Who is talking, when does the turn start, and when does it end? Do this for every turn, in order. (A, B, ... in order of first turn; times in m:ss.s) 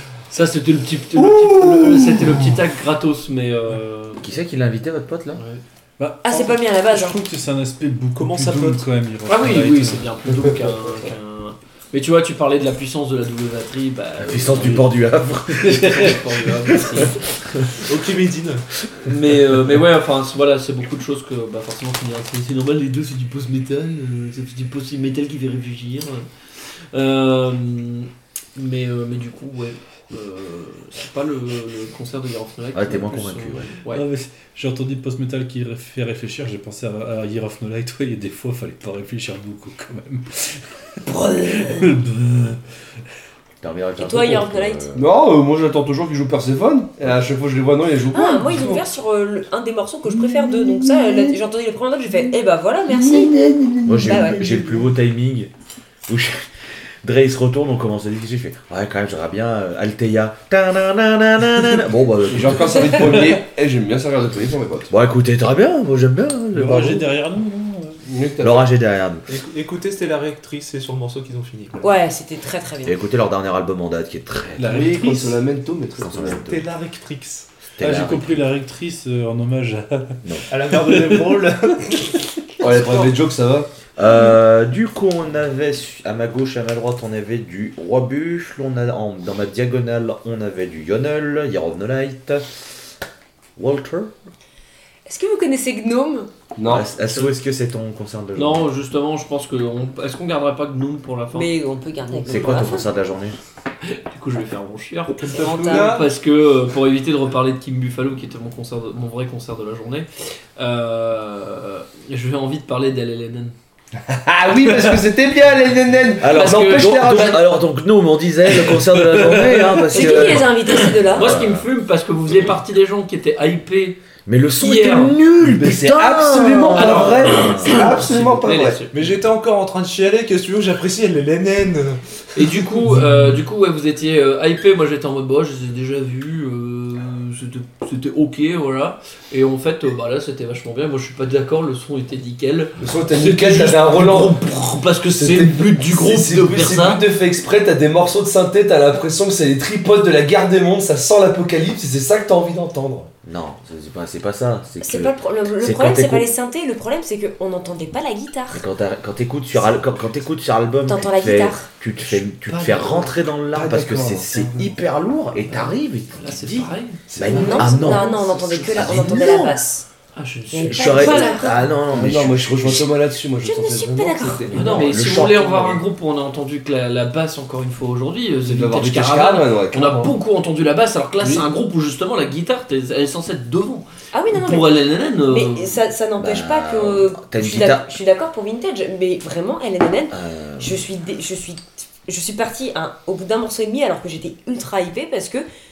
0:00.3-0:04.3 A
0:04.2-0:05.4 B
0:05.4-0:05.6 A
0:06.0-0:10.1 C
0:06.2-0:07.2 D
0:08.1-0:08.9 E
0:09.3-0:14.9 A
0:14.2-0:16.2 B
0:15.6-0:17.7 A
0:16.8-0:17.1 B
0:17.8-0:18.7 E
0:19.0-0:34.0 A
0:32.7-0:33.7 B
0:33.9-0:42.6 C
0:43.6-0:45.1 B
0:44.0-0:44.8 D
0:45.0-0:48.9 F
0:48.1-0:53.4 D
0:50.1-0:51.4 F
0:52.9-0:54.9 F
0:53.9-0:55.5 B
0:54.0-0:54.4 D
0:56.1-0:56.5 B
0:57.0-1:03.4 B
1:02.3-1:04.9 F
1:04.9-1:07.1 B
1:06.5-1:08.0 C
1:08.0-1:08.7 F
1:08.4-1:09.3 B
1:09.3-1:11.9 E
1:11.8-1:13.0 D
1:12.8-1:14.8 B
1:14.6-1:15.4 C
1:14.6-1:16.4 F
1:16.0-1:16.6 B
1:16.3-1:17.5 E
1:17.8-1:18.4 B
1:17.8-1:20.2 C
1:20.5-1:22.2 E
1:20.7-1:21.4 C
1:22.6-1:23.7 F
1:24.0-1:32.5 B
1:33.6-1:34.1 B
1:35.1-1:36.3 D
1:36.6-1:36.9 F
1:36.7-1:38.7 B
1:37.0-1:37.3 A
1:38.4-1:41.5 A
1:41.3-1:42.9 D
1:42.3-1:43.4 B
1:43.8-1:53.6 A
1:45.2-1:46.0 E
1:45.3-1:45.9 D
1:54.0-1:57.4 F
1:56.2-2:01.7 B
1:56.2-1:57.4 A
1:59.1-1:59.8 C
1:59.9-2:01.4 D
2:00.0-2:00.4 F
2:01.2-2:04.0 A
2:04.3-2:07.8 B
2:04.6-2:05.2 A
2:05.4-2:08.8 F
2:06.7-2:09.1 A
2:08.9-2:12.6 E
2:12.4-2:27.0 A
2:22.8-2:24.4 F
2:25.1-2:33.1 F
2:33.2-2:36.3 B
2:34.8-2:38.6 D
2:38.5-2:48.2 B
2:40.9-2:41.7 D
2:42.5-2:42.9 F
2:43.5-2:44.8 F
2:45.5-2:48.7 A
2:47.1-2:48.0 F
2:47.3-2:49.8 D
2:48.7-2:49.6 B
2:50.2-2:51.4 A
2:50.5-2:51.6 D
2:50.6-2:52.9 B
2:51.9-2:54.9 F
2:53.4-2:54.5 D
2:54.5-2:55.8 B
2:54.5-3:05.8 A
2:58.4-3:00.1 F
3:04.1-3:04.7 D
3:05.3-3:15.5 D
3:06.2-3:07.9 B
3:10.1-3:10.8 B